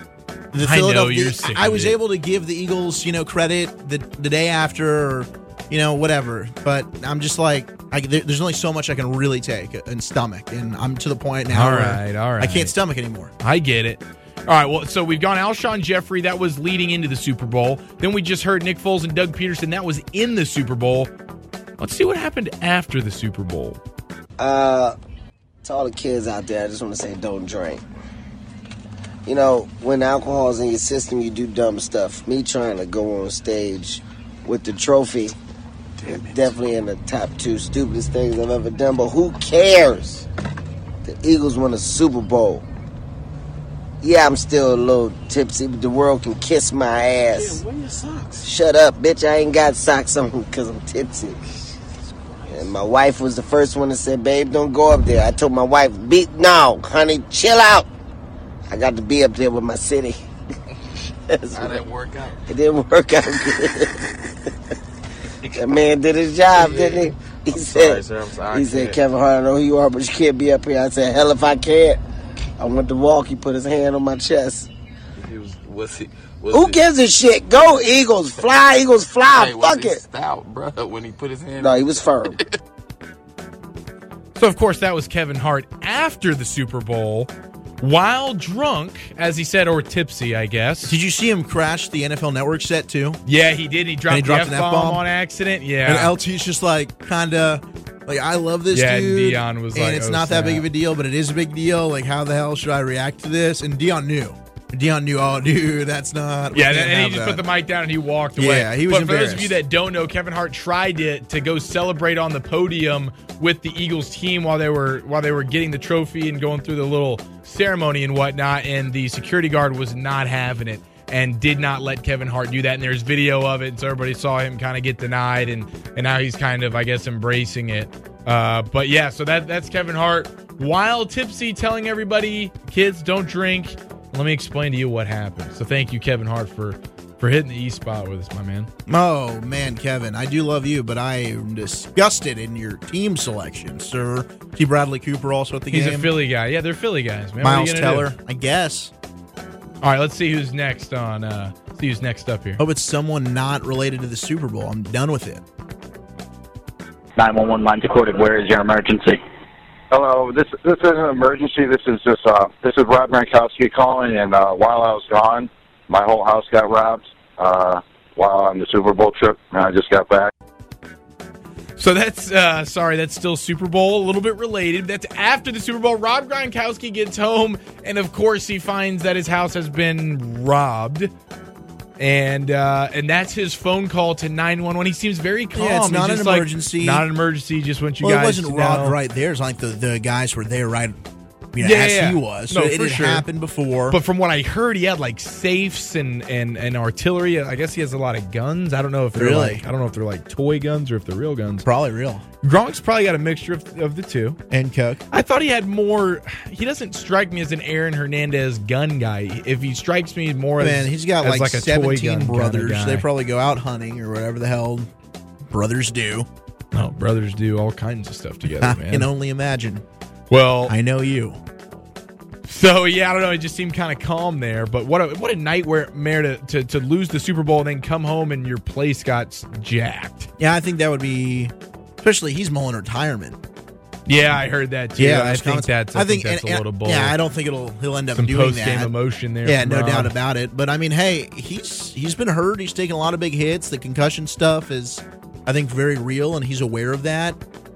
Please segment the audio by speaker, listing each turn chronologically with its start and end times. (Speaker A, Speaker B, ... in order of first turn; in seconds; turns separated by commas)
Speaker A: 0.5-13.3, Speaker B: 0.6-2.0, Speaker B: 11.5-12.8, Speaker B: 13.4-21.1, Speaker B: 21.8-23.8, Speaker C: 24.4-24.9, Speaker C: 25.6-27.8, Speaker C: 29.3-35.4, Speaker C: 36.0-40.2, Speaker C: 41.0-42.6, Speaker C: 44.0-47.6, Speaker D: 47.4-48.4, Speaker C: 48.4-51.4, Speaker C: 52.5-57.9, Speaker C: 58.7-60.2, Speaker C: 61.3-61.8, Speaker D: 61.5-62.4, Speaker C: 62.5-64.0, Speaker C: 65.6-72.0, Speaker D: 66.6-69.0, Speaker C: 72.6-74.7, Speaker D: 75.2-76.8, Speaker C: 76.5-80.0, Speaker D: 79.3-82.5, Speaker C: 81.6-82.4, Speaker B: 84.4-87.3, Speaker B: 87.8-91.0, Speaker A: 90.9-93.2, Speaker B: 93.2-96.2, Speaker A: 94.1-95.0, Speaker A: 95.8-107.4, Speaker B: 98.7-100.7, Speaker B: 106.5-138.7, Speaker A: 108.4-109.6, Speaker A: 138.9-146.1, Speaker B: 145.7-148.1, Speaker A: 147.4-148.9, Speaker B: 149.8-152.6, Speaker A: 152.6-155.4, Speaker E: 157.7-158.6, Speaker F: 157.9-158.5, Speaker F: 159.9-170.3, Speaker E: 160.0-161.1, Speaker E: 161.7-162.2, Speaker B: 171.8-181.1, Speaker B: 182.0-189.0, Speaker A: 185.6-187.1, Speaker A: 188.0-191.0, Speaker A: 191.5-194.0, Speaker B: 191.6-193.3, Speaker B: 193.9-201.7, Speaker A: 199.1-199.6, Speaker A: 201.7-202.2, Speaker B: 202.4-204.4, Speaker A: 204.5-205.0, Speaker B: 205.1-213.1, Speaker A: 210.6-214.9, Speaker A: 215.5-216.3, Speaker B: 216.7-219.1, Speaker A: 218.5-219.8, Speaker B: 220.3-220.8, Speaker A: 220.7-221.4, Speaker B: 222.5-230.3, Speaker A: 230.4-233.4, Speaker B: 234.1-237.2, Speaker A: 235.0-238.9, Speaker B: 238.2-240.1, Speaker A: 239.4-247.4